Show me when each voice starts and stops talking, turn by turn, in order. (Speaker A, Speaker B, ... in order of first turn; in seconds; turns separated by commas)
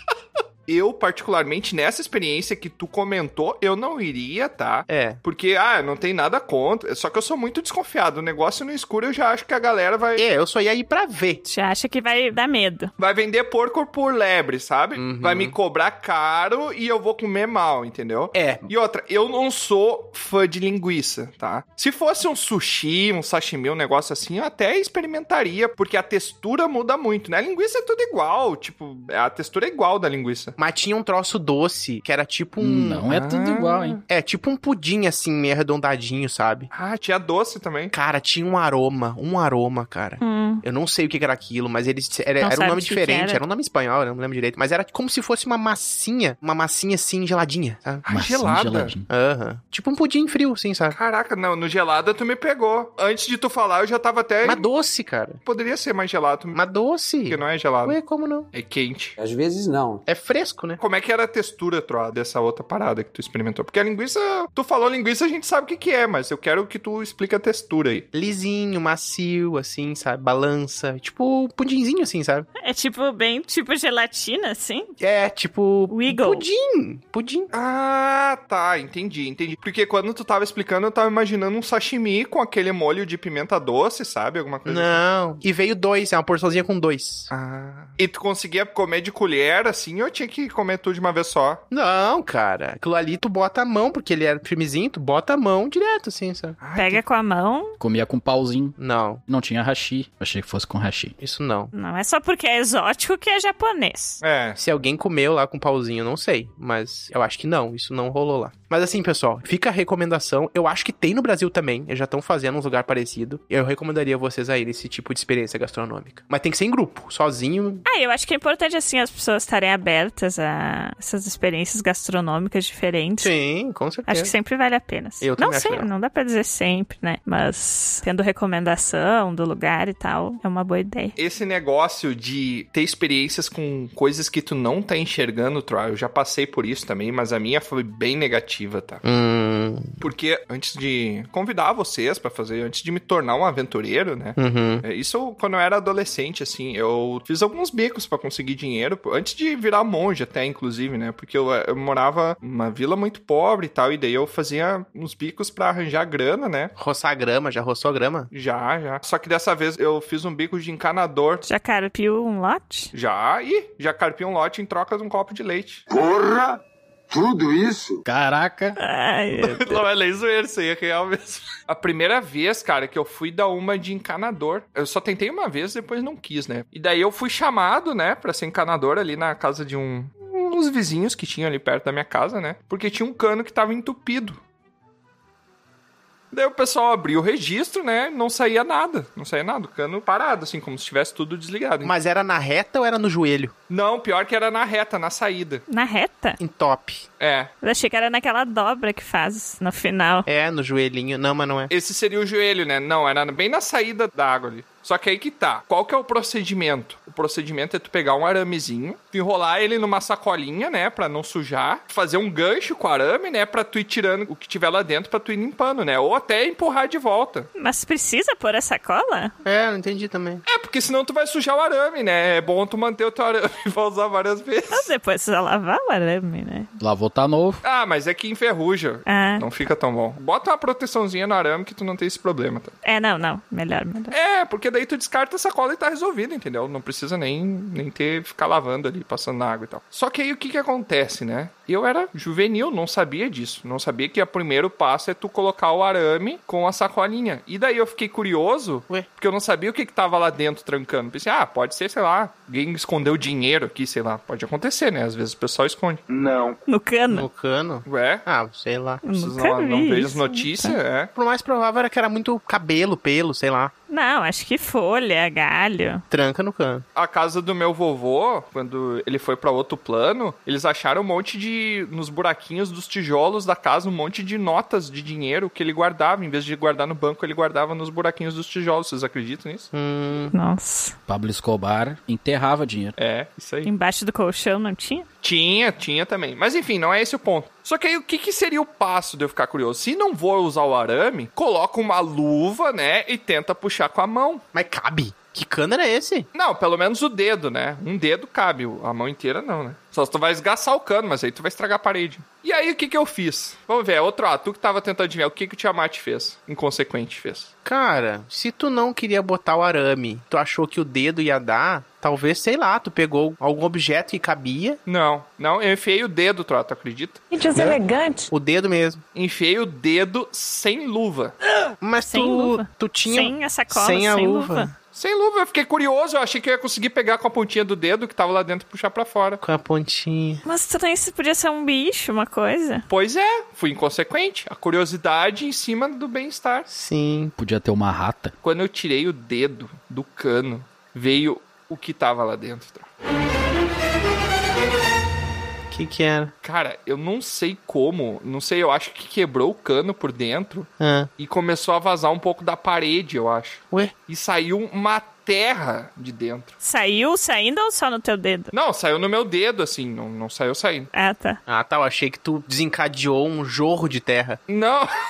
Speaker A: 0.7-10.2, Speaker B: 4.9-5.2, Speaker B: 10.2-11.4, Speaker C: 11.4-12.9, Speaker A: 13.0-30.5, Speaker B: 14.9-15.6, Speaker B: 18.3-18.6, Speaker B: 30.6-33.0, Speaker D: 32.6-34.0, Speaker A: 33.1-34.0, Speaker B: 34.1-36.7, Speaker A: 36.7-37.9, Speaker B: 37.9-48.0, Speaker C: 40.2-40.6, Speaker C: 42.4-43.4, Speaker A: 48.0-48.9, Speaker D: 48.1-49.1, Speaker B: 49.1-51.0, Speaker A: 50.9-54.6, Speaker B: 54.4-55.4, Speaker A: 55.4-56.6, Speaker B: 56.5-58.5, Speaker A: 57.2-58.0, Speaker A: 58.5-59.1, Speaker B: 60.1-60.8, Speaker A: 60.8-68.0, Speaker B: 68.1-72.5, Speaker C: 72.6-74.9, Speaker B: 75.0-77.5, Speaker C: 75.9-76.5, Speaker A: 77.5-85.0, Speaker B: 84.7-87.3, Speaker A: 87.3-91.6, Speaker B: 91.7-96.6, Speaker A: 96.6-97.0, Speaker C: 96.7-97.8, Speaker D: 97.8-98.8, Speaker B: 98.8-99.2, Speaker D: 99.3-101.1, Speaker B: 101.2-101.7, Speaker C: 101.7-104.2, Speaker A: 104.2-104.6, Speaker B: 104.6-117.8, Speaker C: 117.8-123.3, Speaker B: 123.2-124.3, Speaker C: 124.1-131.1, Speaker B: 125.2-125.9, Speaker A: 131.2-139.0, Speaker B: 139.0-139.9, Speaker A: 140.0-156.7, Speaker B: 144.4-144.8, Speaker B: 156.8-158.3, Speaker A: 158.3-161.4, Speaker C: 161.4-162.9, Speaker A: 162.9-165.8, Speaker E: 165.9-166.5, Speaker E: 167.1-168.0, Speaker D: 168.1-168.8, Speaker C: 168.8-169.8, Speaker A: 169.3-184.4, Speaker A: 186.3-191.9, Speaker B: 191.8-193.5, Speaker A: 193.7-195.6, Speaker C: 195.7-196.4, Speaker B: 196.4-197.0, Speaker A: 197.2-197.5, Speaker C: 197.6-200.3, Speaker B: 200.3-201.7, Speaker A: 201.7-217.5, Speaker C: 217.6-219.3, Speaker B: 219.4-220.4, Speaker A: 220.4-224.9, Speaker C: 224.7-226.7, Speaker D: 226.8-227.6, Speaker A: 227.6-232.7, Speaker C: 229.1-229.4, Speaker C: 232.8-234.1, Speaker A: 234.1-256.0, Speaker E: 256.1-256.6, Speaker C: 256.7-257.3, Speaker B: 257.1-259.0, Speaker A: 257.9-258.2, Speaker C: 259.0-260.8, Speaker A: 259.1-261.1, Speaker B: 261.1-263.7, Speaker C: 263.9-266.0, Speaker B: 266.1-266.8, Speaker A: 266.9-279.7, Speaker B: 279.7-280.3, Speaker C: 280.3-280.9, Speaker D: 281.1-282.9, Speaker A: 283.0-283.6, Speaker C: 283.6-285.1, Speaker A: 285.2-294.4, Speaker B: 294.5-296.2, Speaker A: 296.3-307.5, Speaker B: 307.6-314.8, Speaker A: 314.9-317.8, Speaker B: 318.3-319.0, Speaker A: 319.1-321.3, Speaker B: 321.8-324.7, Speaker C: 322.0-324.7, Speaker A: 324.9-329.4, Speaker B: 329.4-330.4, Speaker C: 330.4-332.8, Speaker A: 332.9-336.7, Speaker B: 336.7-337.3, Speaker D: 337.4-338.3, Speaker A: 338.4-342.9, Speaker B: 345.7-346.3, Speaker A: 346.4-356.5, Speaker B: 350.8-351.1, Speaker C: 356.6-358.5, Speaker A: 358.5-360.9, Speaker C: 360.9-361.4, Speaker B: 361.5-364.4, Speaker A: 364.5-364.9